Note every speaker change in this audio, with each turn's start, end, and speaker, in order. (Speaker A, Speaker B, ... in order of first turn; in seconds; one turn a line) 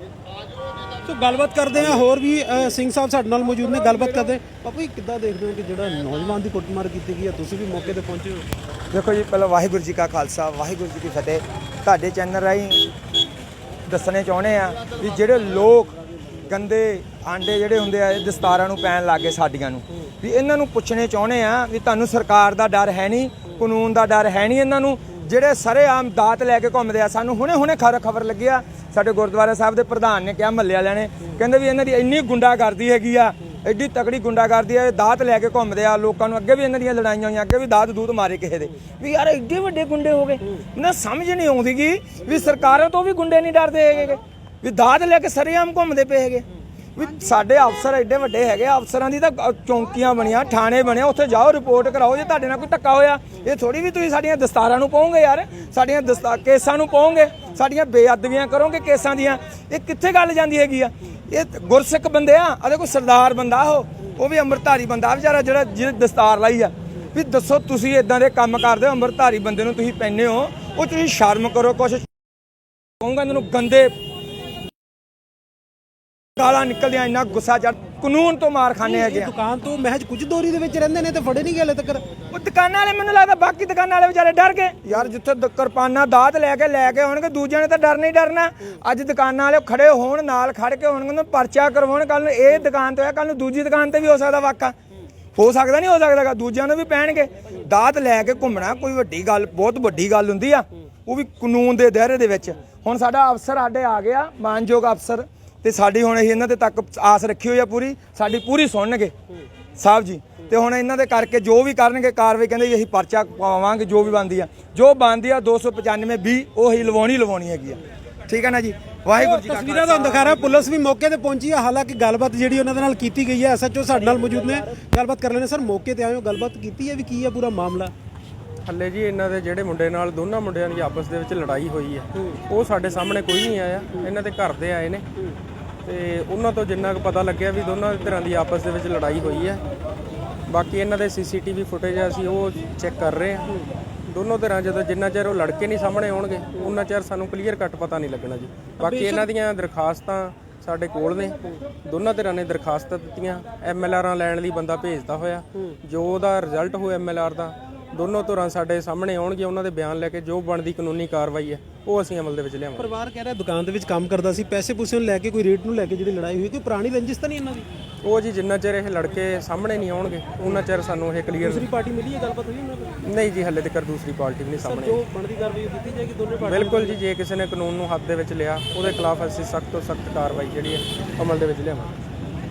Speaker A: 1.1-8.5
Speaker B: 8.9-12.9
Speaker B: 13.9-15.9
Speaker B: 16.5-46.5
Speaker B: 47.0-72.1
Speaker B: 73.0-73.9
Speaker B: 76.4-79.3
Speaker A: 78.8-82.0
Speaker B: 82.3-94.8
Speaker B: 95.4-109.1
Speaker B: 109.8-120.6
Speaker A: 119.2-127.9
Speaker C: 128.7-135.1
Speaker C: 135.8-139.6
Speaker C: 140.5-143.6
Speaker C: 144.1-162.9
Speaker A: 148.8-149.3
Speaker A: 162.8-167.7
Speaker C: 168.0-171.7
Speaker A: 171.4-173.0
Speaker C: 173.1-175.0
Speaker A: 174.6-177.0
Speaker C: 176.4-181.9